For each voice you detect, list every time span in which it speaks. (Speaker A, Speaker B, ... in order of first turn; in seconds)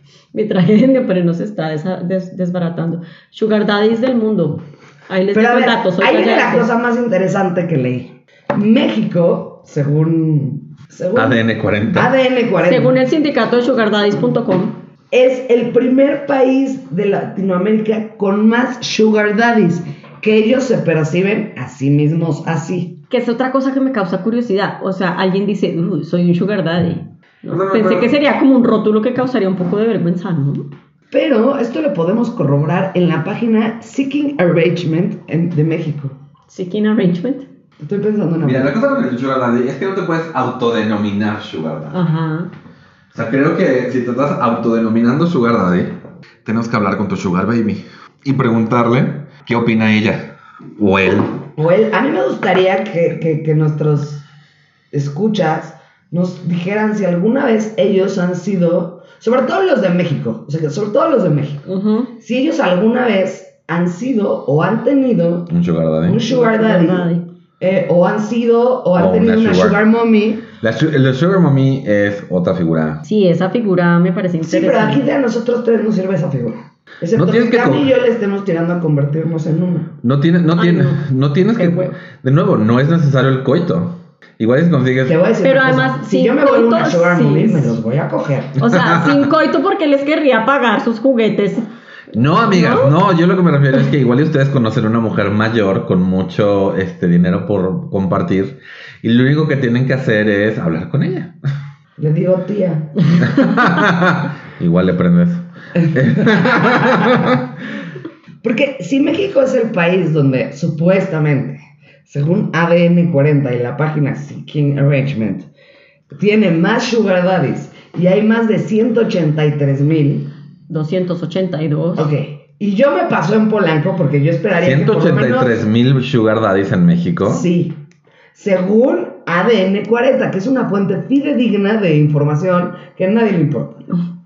Speaker A: 0.3-6.7, 12.6-14.8, 23.1-30.7, 36.5-37.5, 41.9-42.5, 61.6-62.1, 66.3-67.3, 73.0-75.0, 80.5-82.0, 85.4-87.7, 88.6-91.7, 92.4-93.0, 120.7-122.1
Speaker B: 5.3-13.0, 15.1-23.0, 31.1-36.2, 37.8-38.8, 51.5-54.2, 54.9-61.6, 62.2-65.5, 66.0-67.1, 67.6-70.5, 74.4-80.0, 85.0-88.6, 102.0-103.0, 105.8-107.4, 108.4-115.5, 116.1-120.3, 122.0-125.7, 127.2-127.8, 128.3-133.9
Speaker C: 11.1-12.1, 27.5-28.2, 38.4-42.0, 43.1-51.4, 65.5-66.2, 68.9-69.8, 70.6-73.0, 77.1-77.9, 80.0-85.2, 88.7-89.2, 92.1-101.3, 103.2-107.4, 124.6-127.5